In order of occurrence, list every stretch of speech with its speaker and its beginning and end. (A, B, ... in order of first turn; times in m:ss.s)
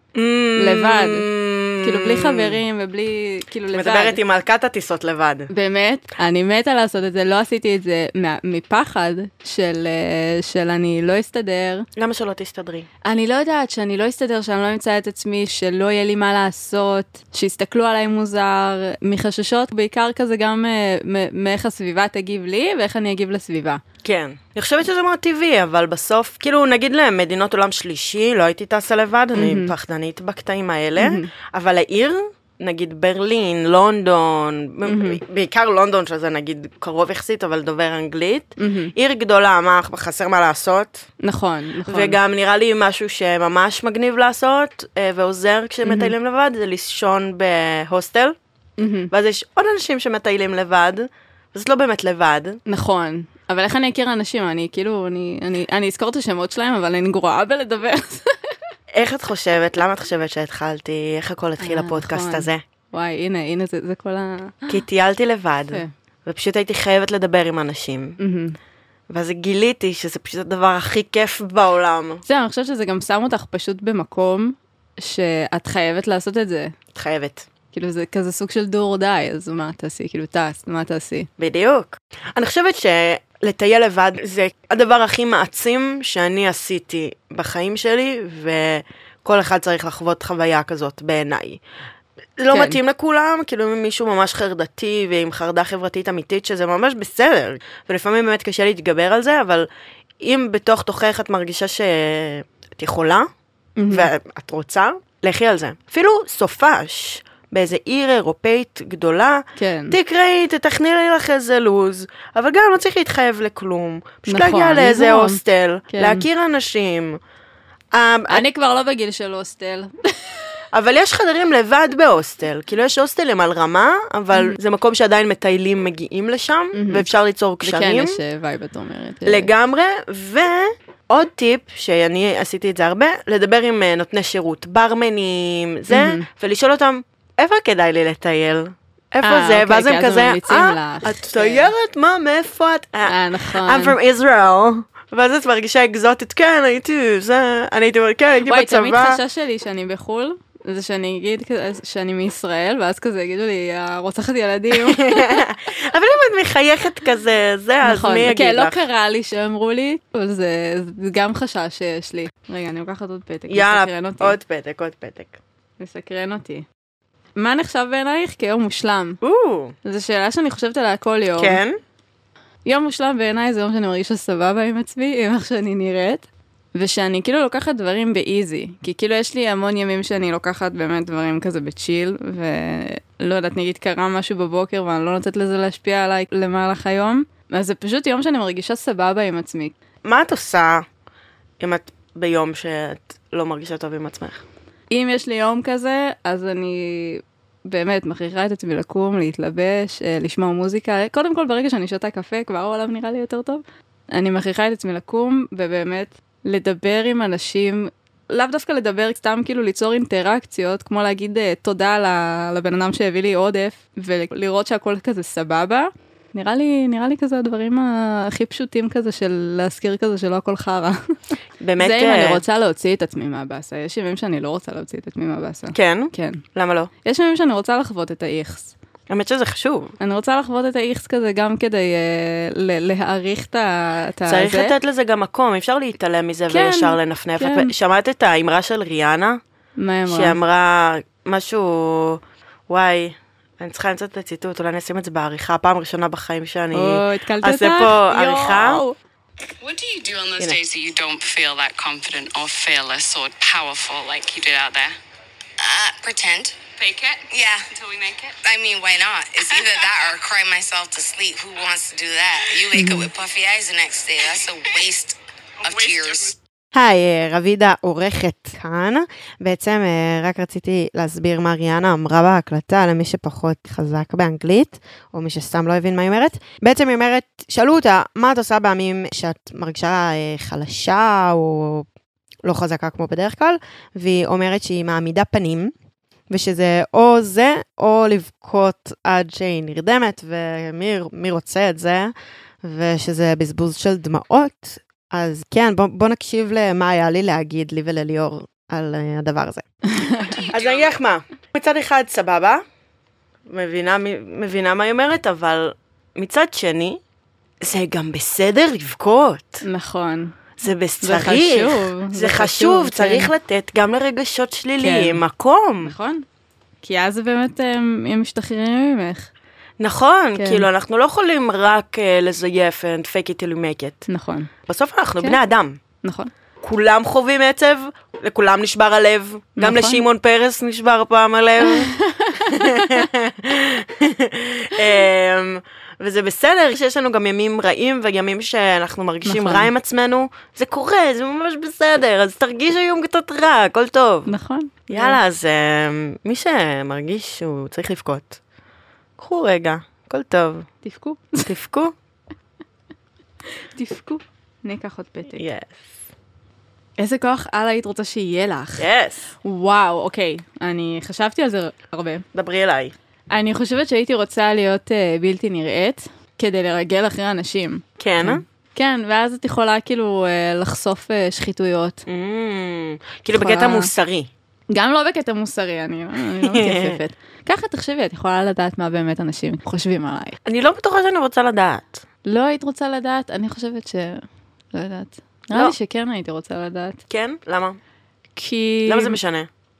0:00.1-0:02.6 A
0:00.6-0:01.3 B
0:01.8-0:04.2 B
0:03.7-0:05.5 A
0:05.5-0:11.9 B
0:12.0-0:12.9 A
0:13.0-0:23.8 B
0:24.0-0:41.1 A
0:29.4-0:29.7 B
0:31.0-0:31.3 B
0:34.8-0:35.2 B
0:38.6-0:38.9 B
0:41.2-0:42.2 B
0:41.8-0:48.4 A
0:45.8-0:46.1 B
0:48.8-0:49.1 B
0:49.1-0:52.6 A
0:52.6-0:58.5 B
0:58.9-1:02.6 A
1:01.6-1:04.8 B
1:04.7-1:08.2 A
1:08.2-1:08.6 B
1:09.1-1:12.2 A
1:12.2-1:16.7 B
1:16.9-1:17.5 A
1:17.7-1:21.3 B
1:21.4-1:31.6 A
1:32.4-1:39.7 A
1:32.5-1:32.8 B
1:40.2-1:43.3 A
1:43.8-1:44.1 B
1:43.9-1:57.2 A
1:49.6-1:50.0 B
1:54.2-1:56.2 B
1:57.9-1:58.4 A
1:58.3-2:00.4 B
2:00.7-2:08.2 A
2:06.7-2:07.1 B
2:07.6-2:09.5 B
2:09.2-2:29.2 A
2:15.9-2:16.3 B
2:19.2-2:21.7 B
2:23.0-2:23.9 B
2:28.4-2:35.4 B
2:34.7-2:38.8 A
2:37.8-2:44.4 B
2:43.5-2:45.4 A
2:45.8-2:46.6 B
2:47.4-2:49.2 B
2:49.2-2:49.7 A
2:49.8-2:51.6 B
2:51.4-2:51.8 A
2:52.6-3:09.7 B
3:10.0-3:10.8 A
3:11.6-3:14.4 A
3:14.9-3:46.4 B
3:41.6-3:42.4 A
3:45.7-3:46.9 A
3:47.0-3:48.7 B
3:49.1-3:49.9 A
3:50.0-3:54.7 B
3:54.2-3:59.4 A
3:56.5-3:57.7 B
3:59.8-4:00.4 B
4:00.1-4:08.8 A
4:06.7-4:09.0 B
4:09.6-4:14.9 C
4:09.7-4:10.3 D
4:15.6-4:16.6 D
4:16.8-4:18.4 C
4:17.3-4:17.6 D
4:18.4-4:26.4 D
4:22.7-4:23.1 B
4:25.6-4:26.3 C
4:26.7-4:41.8 A
4:42.4-4:45.7 A
4:46.3-4:52.1 A
4:52.6-4:59.6 A
4:59.9-5:00.4 B
5:00.4-5:00.9 C
5:00.5-5:02.6 A
5:03.5-5:07.0 A
5:07.6-5:09.6 A
5:09.6-5:10.4 B
5:10.6-5:15.9 A
5:11.0-5:13.3 B
5:14.8-5:15.2 B
5:15.8-5:16.2 B
5:16.8-5:19.3 B
5:19.8-5:24.1 A
5:20.4-5:20.7 B
5:24.1-5:24.5 B
5:24.7-5:25.8 A
5:26.0-5:26.3 B
5:26.6-5:44.3 A
5:29.6-5:30.0 B
5:31.6-5:33.0 B
5:39.2-5:39.7 B
5:44.2-5:45.2 B
5:44.9-5:48.4 A
5:49.2-5:50.7 A
5:50.8-5:51.5 B
5:51.4-5:51.9 A
5:53.7-5:55.4 B
5:55.3-5:55.9 A
5:57.0-5:58.9 B
5:58.8-5:59.3 A
5:59.4-6:02.2 B
6:02.3-6:02.9 A
6:03.3-6:12.0 B
6:08.0-6:08.4 A
6:12.1-6:14.3 A
6:13.3-6:13.9 B
6:14.7-6:20.4 B
6:16.4-6:17.0 A
6:20.4-6:22.0 A
6:22.2-6:27.0 B
6:27.1-6:27.8 A
6:28.4-6:29.2 B
6:28.8-6:29.5 A